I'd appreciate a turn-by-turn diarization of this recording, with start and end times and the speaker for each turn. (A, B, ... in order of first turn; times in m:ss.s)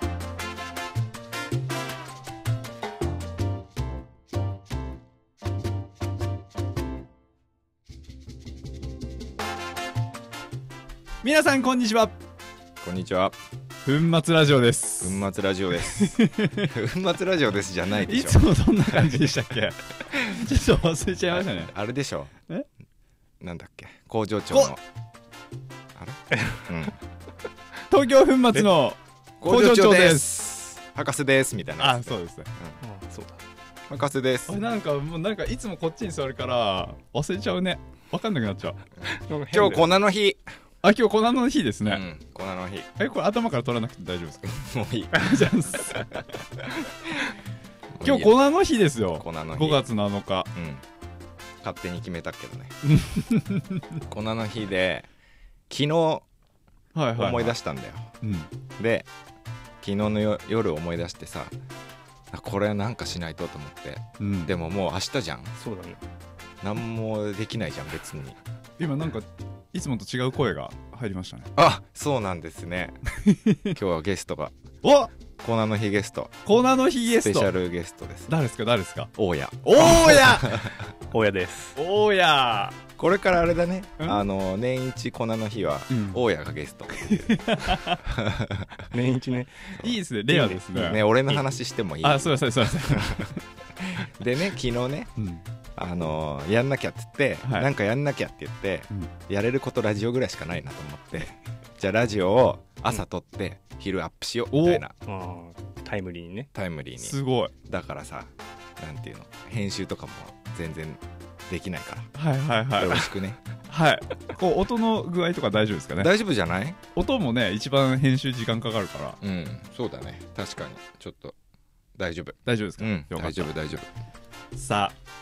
0:11.2-0:12.2 A
0:12.8-0:13.4 B
0:13.8-0:15.2 A
0:15.0-0:19.3 B
0:15.8-0:16.7 A
0:18.0-0:21.7 A
0:20.1-0:20.4 B
0:21.3-0:22.3 B
0:23.4-0:24.8 B
0:24.5-0:24.8 A
0:25.9-0:27.0 B
0:26.3-0:26.7 C
0:27.9-0:30.3 A
0:29.4-0:32.8 B
0:31.8-0:32.5 A
0:32.8-0:33.4 C
0:33.9-0:34.6 B
0:34.5-0:38.8 A
0:39.1-0:39.9 C
0:39.5-0:40.4 B
0:40.8-0:42.0 A
0:41.8-0:42.9 B
0:43.0-0:44.5 A
0:44.4-0:46.7 B
0:45.1-0:46.1 A
0:47.9-0:48.4 B
0:48.0-0:50.5 A
0:49.1-0:49.8 B
0:50.5-0:50.8 B
0:51.6-0:52.7 B
0:52.8-0:54.0 A
0:54.1-0:55.1 B
0:55.7-0:56.2 B
0:56.9-0:57.6 A
0:57.1-0:58.1 B
0:58.2-0:58.5 A
0:58.8-0:59.1 B
0:59.8-1:01.5 B
1:02.3-1:05.5 B
1:04.2-1:04.6 A
1:05.6-1:06.0 C
1:06.6-1:08.4 B
1:08.8-1:11.5 A
1:11.6-1:13.0 B
1:13.1-1:13.8 A
1:13.7-1:14.5 B
1:14.8-1:15.1 A
1:15.4-1:16.4 B
1:16.4-1:17.5 A
1:17.1-1:18.3 B
1:18.3-1:19.1 A
1:19.1-1:20.8 B
1:19.6-1:20.6 A
1:21.1-1:21.8 C
1:21.8-1:22.8 A
1:23.0-1:28.8 B
1:25.9-1:26.2 A
1:27.0-1:28.0 A
1:28.9-1:31.5 C
1:29.8-1:31.0 A
1:30.7-1:35.1 B
1:32.0-1:33.4 A
1:35.2-1:35.4 A
1:35.8-1:44.9 B
1:37.4-1:37.7 A
1:44.5-1:44.8 A
1:45.0-1:46.5 C
1:46.5-1:52.1 B
1:47.0-1:47.5 A
1:52.1-1:53.1 A
1:52.7-1:53.4 B
1:53.7-1:56.1 A
1:56.0-1:56.8 B
1:56.9-1:59.2 A
1:59.2-2:01.4 B
2:01.9-2:03.9 B
2:02.4-2:03.5 A
2:04.5-2:05.0 A